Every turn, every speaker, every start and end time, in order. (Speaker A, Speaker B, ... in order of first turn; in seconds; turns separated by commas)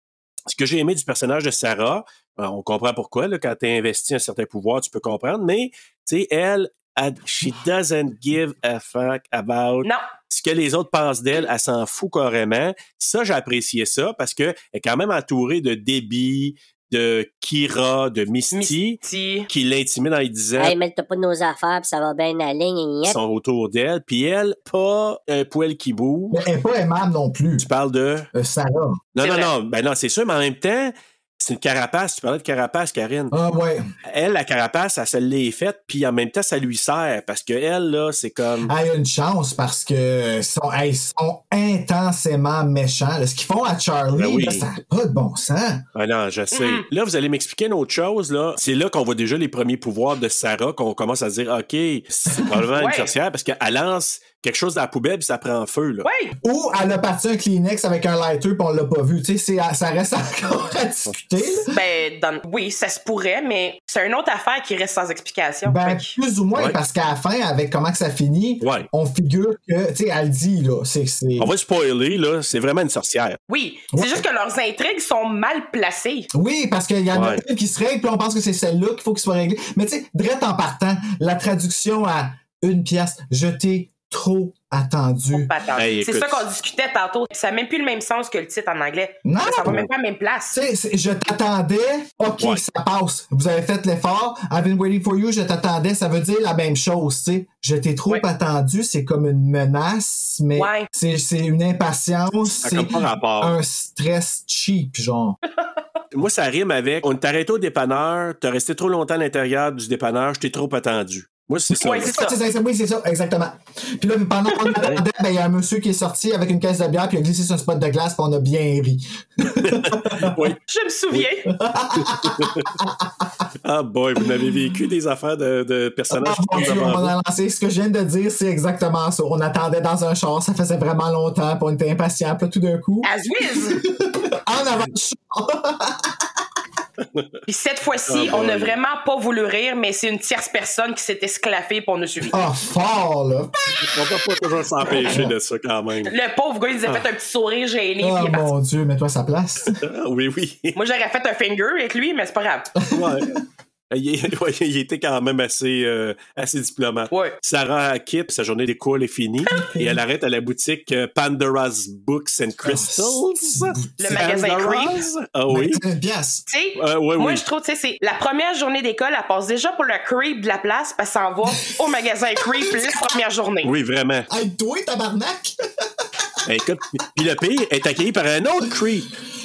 Speaker A: 0.5-20.7, Speaker B: 18.5-19.5, Speaker C: 20.6-23.2, Speaker A: 23.0-26.4, Speaker D: 26.3-27.7, Speaker A: 27.6-28.3, Speaker D: 28.3-29.0, Speaker A: 29.1-33.3, Speaker B: 29.2-29.5, Speaker D: 33.3-33.9, Speaker A: 34.0-38.7, Speaker D: 38.6-45.8, Speaker A: 44.1-44.6, Speaker A: 45.9-56.1, Speaker B: 46.5-46.8, Speaker B: 52.7-53.1, Speaker B: 56.0-56.3, Speaker D: 56.4-61.7, Speaker B: 61.7-66.1, Speaker D: 65.6-71.5, Speaker A: 68.6-68.9, Speaker A: 71.4-73.4, Speaker B: 73.5-76.3, Speaker D: 73.9-74.2, Speaker D: 76.3-85.5, Speaker A: 77.1-77.4, Speaker B: 85.3-90.5, Speaker A: 85.8-86.4, Speaker D: 89.2-89.8, Speaker D: 90.5-105.4, Speaker B: 100.5-100.9, Speaker A: 102.5-103.5, Speaker A: 106.1-112.1, Speaker B: 111.8-112.4, Speaker D: 112.0-120.4, Speaker A: 114.8-115.0, Speaker A: 119.5-120.6, Speaker B: 120.7-121.5, Speaker D: 121.5-123.2, Speaker A: 122.0-122.7, Speaker A: 123.6-127.1, Speaker D: 126.1-133.1, Speaker B: 133.0-133.8, Speaker D: 133.7-136.3, Speaker A: 137.0-137.4, Speaker B: 137.5-142.4, Speaker A: 138.1-138.7, Speaker D: 142.3-143.9, Speaker A: 143.8-146.1, Speaker D: 144.8-145.3, Speaker B: 146.1-148.5, Speaker D: 148.0-149.8, Speaker A: 149.7-150.8, Speaker B: 150.8-152.7, Speaker A: 152.9-153.4, Speaker D: 152.9-153.2, Speaker A: 153.9-165.8, Speaker D: 159.5-160.0, Speaker D: 162.6-164.3, Speaker B: 164.0-165.0, Speaker D: 165.5-166.4, Speaker B: 166.5-173.7, Speaker A: 166.8-167.4, Speaker D: 172.4-173.1, Speaker A: 173.6-174.3, Speaker D: 174.3-175.5, Speaker A: 176.4-179.1